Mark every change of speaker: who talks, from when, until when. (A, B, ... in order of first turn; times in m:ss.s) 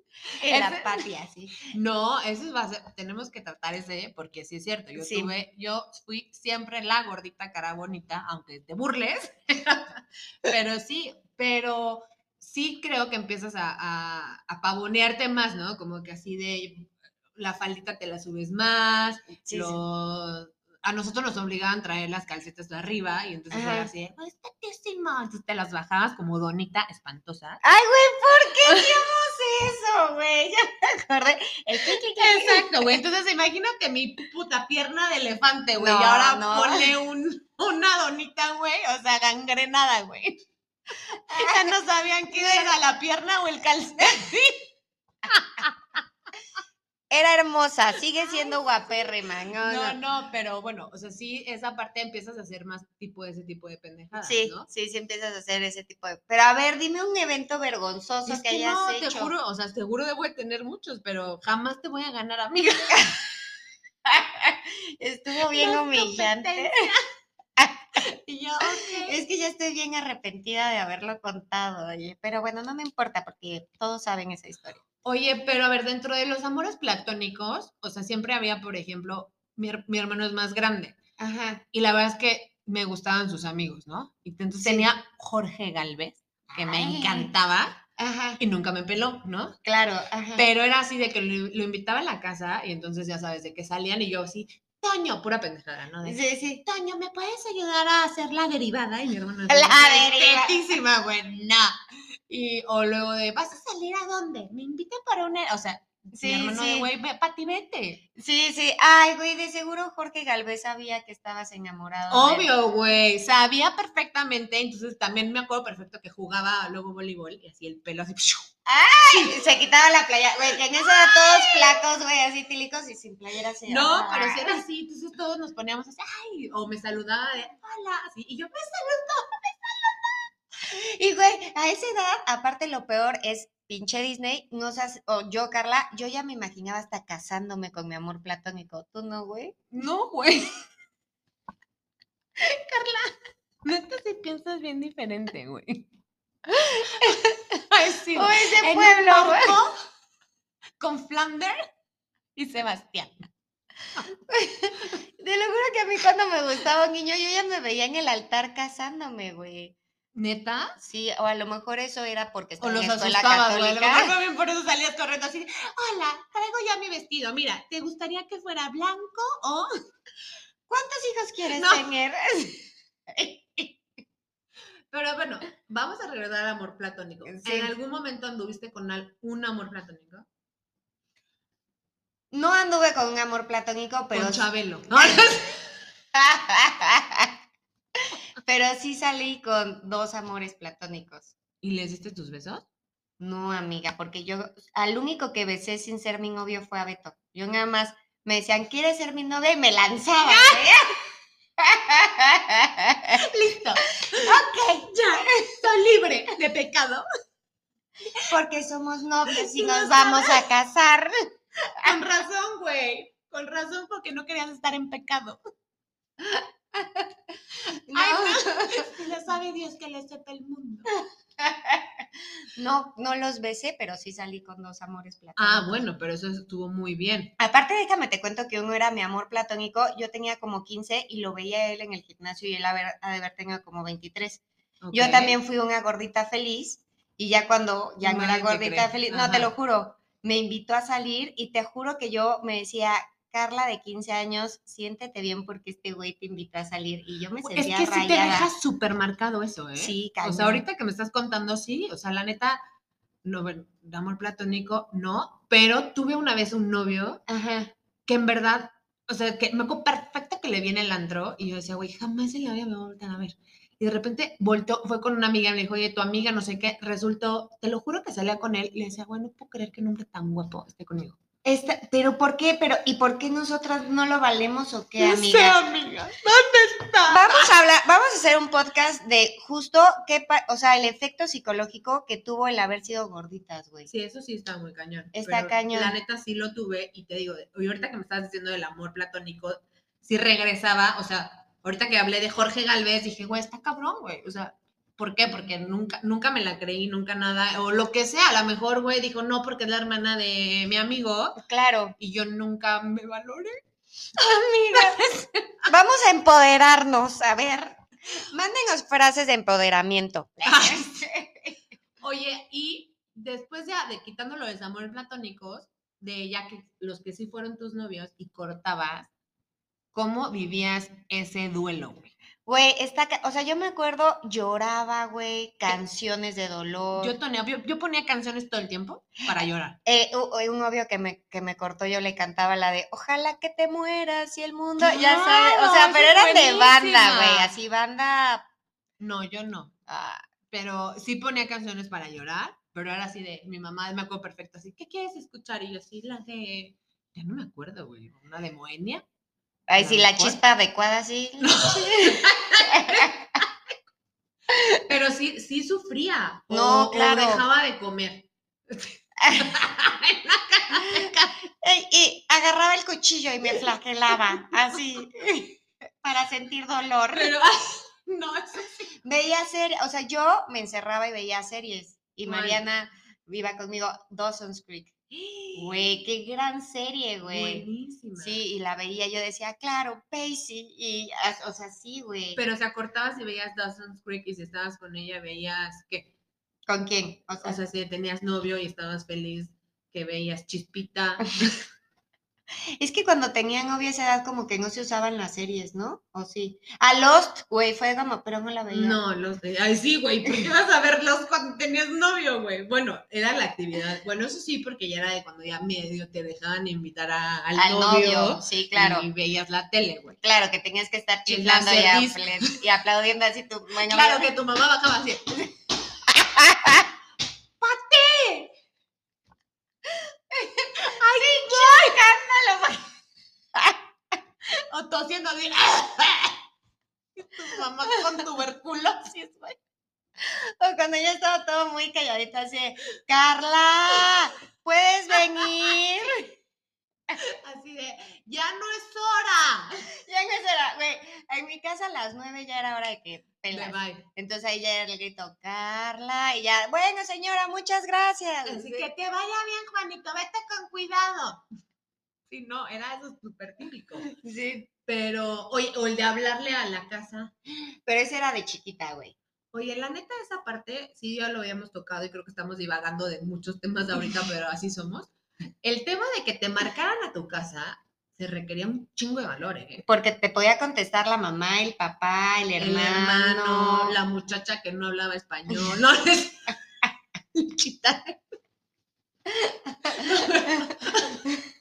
0:00.4-0:01.6 A
0:00.4-0:01.0 B
0:01.7-0:27.6 B
0:05.0-0:05.3 A
0:19.4-0:19.8 A
0:23.5-0:23.9 A
0:27.6-0:32.8 A
0:31.9-0:40.4 B
0:35.8-0:36.9 A
0:41.3-0:44.7 B
0:41.4-0:41.6 A
0:42.3-0:42.7 A
0:45.3-0:46.0 B
0:47.1-0:50.0 A
0:48.4-0:48.9 B
0:49.6-0:54.7 B
0:54.2-0:59.3 A
0:58.2-1:03.1 B
1:04.0-1:06.8 A
1:05.5-1:07.0 B
1:07.6-1:07.8 A
1:08.1-1:09.2 B
1:09.0-1:14.8 A
1:15.0-1:21.0 B
1:21.2-1:21.6 A
1:21.7-1:27.8 B
1:24.6-1:24.9 A
1:26.5-1:27.3 A
1:28.0-1:28.4 A
1:28.4-1:29.6 B
1:29.6-1:30.4 A
1:30.4-1:41.8 B
1:36.0-1:36.6 A
1:39.5-1:40.8 A
1:42.3-1:48.0 B
1:46.1-1:46.9 A
1:48.2-1:52.5 A
1:52.1-1:58.5 B
1:58.7-2:04.6 A
1:59.1-1:59.5 B
2:00.8-2:01.8 B
2:03.7-2:10.2 B
2:10.7-2:19.6 A
2:19.7-2:20.5 B
2:22.4-2:23.1 B
2:23.6-2:25.9 B
2:26.7-2:27.2 A
2:26.9-2:29.7 B
2:28.2-2:29.5 A
2:30.8-2:31.6 B
2:32.4-2:33.2 B
2:34.3-2:39.8 A
2:40.1-2:40.8 B
2:40.8-2:44.1 A
2:42.6-2:49.7 B
2:50.7-2:53.8 A
2:51.5-2:51.9 B
2:54.9-3:00.2 B
2:57.2-2:57.7 A
3:02.3-3:04.5 A
3:04.1-3:05.6 B
3:06.1-3:07.3 A
3:08.4-3:11.3 A
3:11.6-3:12.6 B
3:13.2-3:20.9 A
3:20.2-3:20.8 B
3:21.6-3:23.2 A
3:23.2-3:27.0 B
3:28.3-3:31.1 A
3:29.3-3:30.4 B
3:31.8-3:35.4 B
3:37.9-3:38.8 A
3:37.9-3:40.9 B
3:41.4-3:41.8 A
3:42.6-3:45.9 A
3:45.4-3:47.3 B
3:47.4-4:08.5 A
3:54.8-3:55.4 B
3:58.0-3:59.5 B
4:07.4-4:12.6 B
4:09.8-4:10.6 A
4:13.2-4:17.2 B
4:17.3-4:17.7 A
4:18.1-4:31.2 B
4:31.4-4:36.0 A
4:35.0-4:37.5 B
4:37.1-4:43.9 A
4:43.9-5:01.4 B
4:45.1-4:46.0 A
5:01.4-5:01.9 A
5:02.0-5:03.5 B
5:04.2-5:05.7 B
5:04.7-5:05.0 A
5:05.7-5:11.5 A
5:10.5-5:11.0 B
5:12.0-5:19.1 B
5:19.9-5:22.1 B
5:22.4-5:27.2 A
5:26.9-5:29.8 B
5:29.8-5:38.4 A
5:34.8-5:37.5 B
5:39.0-5:39.7 B
5:39.9-5:40.2 A
5:40.5-5:49.0 B
5:49.7-5:53.1 A
5:49.8-5:50.4 B
5:51.4-5:53.1 B
5:54.9-6:01.4 B
5:56.5-5:57.4 A
6:01.6-6:07.3 A
6:03.4-6:04.4 B
6:07.1-6:08.9 B
6:09.0-6:14.9 A
6:12.2-6:12.6 B
6:15.1-6:16.0 B
6:15.5-6:17.6 A
6:17.2-6:18.4 B
6:18.2-6:22.4 A
6:22.3-6:26.1 B
6:26.7-6:27.6 A
6:27.4-6:31.6 B
6:32.8-6:39.0 A
6:38.7-6:50.2 B
6:47.6-6:49.1 A
6:50.2-6:54.3 A
6:51.3-6:52.6 B
6:53.8-6:55.5 B
6:56.1-6:56.8 A
6:57.6-6:58.5 B
7:00.3-7:02.8 A
7:01.0-7:02.1 B
7:04.7-7:06.4 B
7:07.2-7:09.6 B
7:10.2-7:16.3 A
7:15.4-7:15.7 B
7:17.2-7:19.8 B
7:20.0-7:28.9 A
7:23.5-7:24.0 B
7:28.5-7:31.4 B
7:32.3-7:34.0 B
7:34.0-7:34.7 A
7:34.8-7:37.3 B
7:37.8-7:39.1 A
7:39.5-7:45.1 B
7:45.6-7:49.8 B
7:49.8-7:54.0 A
7:52.6-7:58.2 B
7:59.9-8:00.7 A
8:00.0-8:01.3 B